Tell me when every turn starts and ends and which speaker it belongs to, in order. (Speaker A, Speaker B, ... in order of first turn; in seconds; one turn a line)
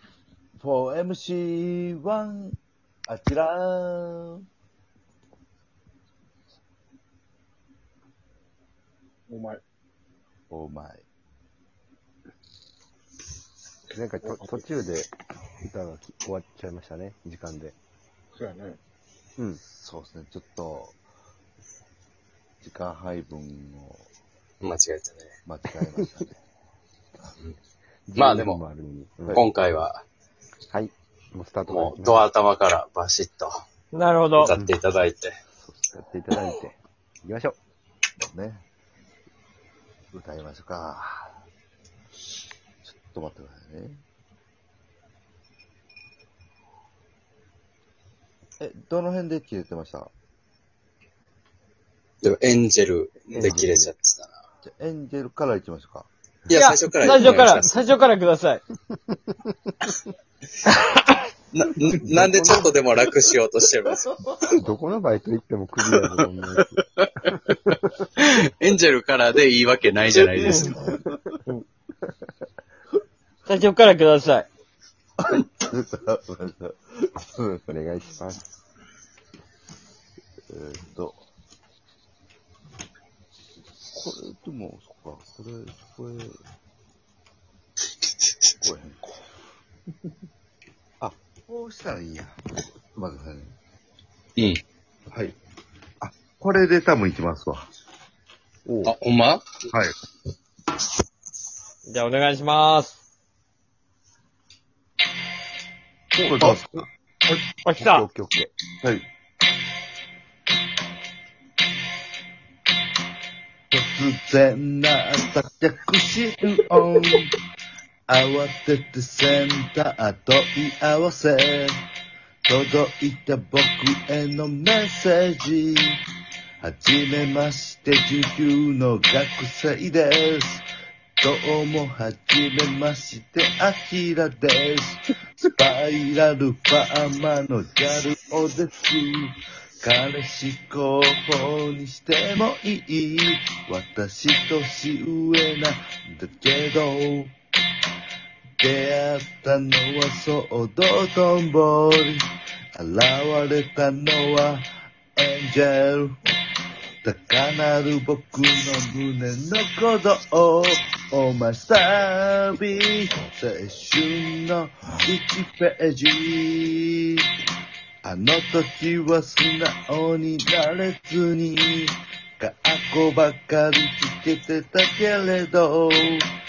Speaker A: 0.6-2.5
Speaker A: 3.1-4.4
Speaker B: 9.3-9.6
Speaker A: 10.5-11.0
Speaker C: 13.9-15.1
Speaker B: 14.2-14.7
Speaker C: 15.6-17.8
Speaker B: 18.4-18.8
Speaker A: 19.7-21.0
Speaker A: 22.6-24.1
Speaker D: 24.6-25.3
Speaker A: 25.4-26.4
Speaker C: 28.1-29.4
Speaker D: 28.1-28.6
Speaker D: 29.3-30.0
Speaker C: 30.7-32.2
Speaker D: 31.7-33.6
Speaker E: 33.9-34.5
Speaker D: 34.4-35.4
Speaker C: 34.5-34.8
Speaker C: 35.6-37.6
Speaker A: 38.2-38.6
Speaker A: 40.1-41.3
Speaker A: 42.8-44.0
Speaker A: 48.6-50.1
Speaker D: 52.2-54.3
Speaker C: 53.3-53.9
Speaker A: 54.6-56.1
Speaker D: 56.5-57.9
Speaker E: 56.5-58.6
Speaker D: 61.5-64.2
Speaker C: 62.0-62.7
Speaker C: 64.5-66.8
Speaker D: 65.9-70.9
Speaker A: 70.4-71.3
Speaker E: 73.5-74.5
Speaker A: 75.2-77.7
Speaker C: 77.7-78.4
Speaker A: 80.5-81.2
Speaker A: 83.9-86.4
Speaker A: 88.6-89.2
Speaker A: 91.0-92.3
Speaker A: 93.0-93.5
Speaker A: 95.1-95.3
Speaker A: 96.0-97.7
Speaker C: 98.7-98.9
Speaker D: 98.8-99.4
Speaker E: 101.8-103.0
Speaker A: 106.1-106.8
Speaker B: 106.4-107.4
Speaker E: 107.6-108.0
Speaker C: 107.8-108.5
Speaker A: 113.7-117.3
Speaker A: 118.1-121.8
Speaker A: 122.5-126.0
Speaker A: 126.6-130.6
Speaker A: 131.2-147.3
Speaker A: 148.6-152.2
Speaker A: 152.8-154.7
Speaker A: 155.2-156.2
Speaker A: 157.0-167.2
Speaker A: 168.0-176.2